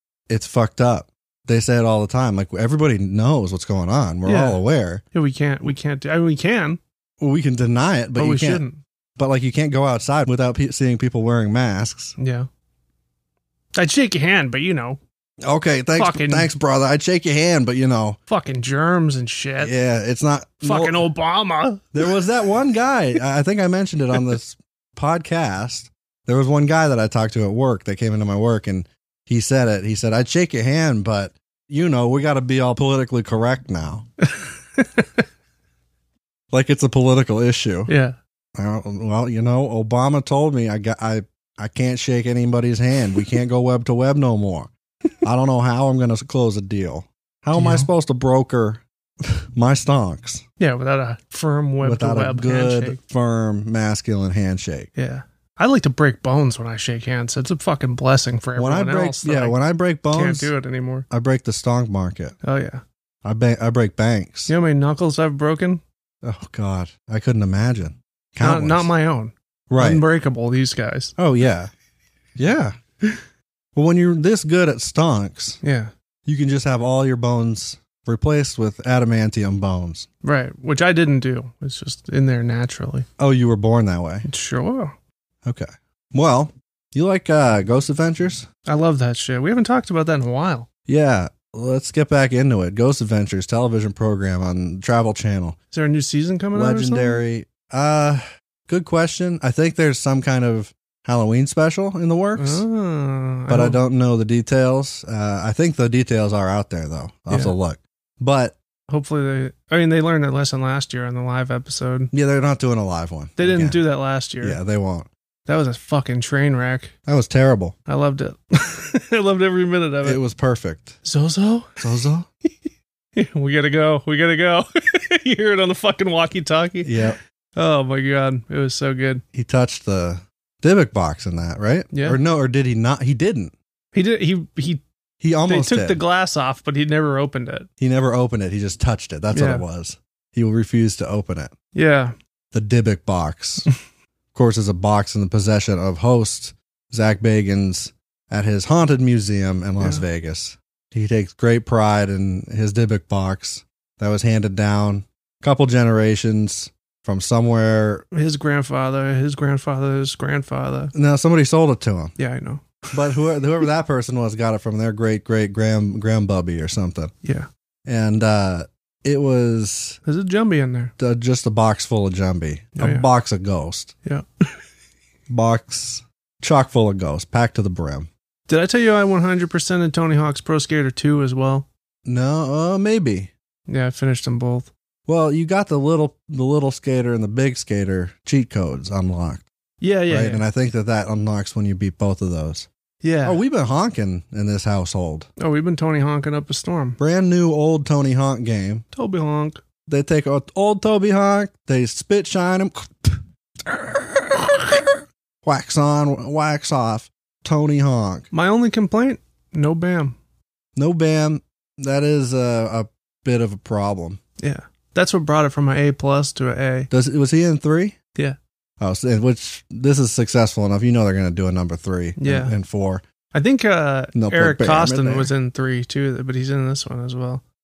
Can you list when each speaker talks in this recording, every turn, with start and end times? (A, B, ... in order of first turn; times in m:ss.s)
0:00.3-0:05.0 A
0:04.2-0:04.6 B
0:05.1-0:06.8 B
0:07.2-0:08.6 A
0:08.2-0:08.8 B
0:09.2-0:12.1 A
0:12.2-0:12.5 B
0:13.7-0:15.0 B
0:15.4-0:18.2 A
0:16.0-0:16.5 B
0:18.3-0:19.7 B
0:19.6-0:21.0 A
0:20.6-0:22.0 B
0:21.9-0:34.1 A
0:34.8-0:35.0 B
0:36.5-0:37.9 A
0:37.9-0:38.2 B
0:38.6-0:44.7 A
0:45.2-0:50.4 A
0:47.5-0:47.9 B
0:50.6-0:53.0 B
0:51.8-0:54.9 A
0:55.0-0:59.6 B
0:58.6-1:00.5 A
1:00.1-1:01.1 B
1:01.1-1:02.4 A
1:02.4-1:02.8 B
1:03.2-1:04.5 A
1:04.5-1:05.8 B
1:06.2-1:08.9 A
1:08.4-1:11.1 B
1:09.7-1:10.0 A
1:11.2-1:11.7 A
1:12.4-1:12.8 A
1:13.7-1:15.6 A
1:15.6-1:15.9 B
1:16.2-1:20.1 A
1:20.2-1:23.0 B
1:23.2-1:24.3 A
1:24.2-1:24.9 B
1:25.4-1:28.5 A
1:28.6-1:30.7 B
1:30.9-1:35.6 A
1:35.7-1:37.2 B
1:36.5-1:42.6 A
1:42.4-1:43.8 B
1:43.5-1:48.6 A
1:47.3-1:47.5 B
1:48.9-1:52.1 B
1:52.1-1:53.8 A
1:53.4-1:54.6 B
1:54.4-1:55.1 A
1:55.4-1:56.9 B
1:57.1-1:57.7 A
1:57.9-2:00.2 B
2:00.0-2:01.0 A
2:01.0-2:01.8 B
2:01.8-2:02.3 A
2:03.2-2:09.2 B
2:06.8-2:07.2 A
2:09.3-2:13.5 A
2:11.9-2:12.2 B
2:13.9-2:14.8 B
2:15.2-2:16.0 A
2:15.5-2:17.7 B
2:17.8-2:21.5 A
2:19.3-2:19.6 B
2:21.7-2:22.1 B
2:22.5-2:23.7 A
2:24.3-2:38.0 A
2:38.1-2:40.9 B
2:40.9-2:42.1 A
2:42.2-2:42.9 B
2:42.9-2:47.1 A
2:47.8-2:50.0 A
2:50.0-2:50.9 B
2:51.0-2:53.9 A
2:52.8-2:53.0 B
2:54.0-2:54.5 B
2:55.3-2:58.1 A
2:58.5-3:01.6 B
3:02.0-3:03.3 A
3:03.7-3:04.7 B
3:05.1-3:09.4 A
3:09.8-3:10.4 B
3:10.1-3:12.7 A
3:13.0-3:13.4 B
3:13.2-3:15.3 A
3:15.4-3:17.0 B
3:17.0-3:18.8 A
3:18.9-3:19.6 B
3:19.9-3:28.3 A
3:28.3-3:30.2 B
3:30.8-3:34.2 A
3:34.4-3:36.9 B
3:36.9-3:38.0 A
3:38.8-3:43.0 A
3:42.2-3:42.5 B
3:43.3-3:47.4 B
3:44.1-3:45.3 A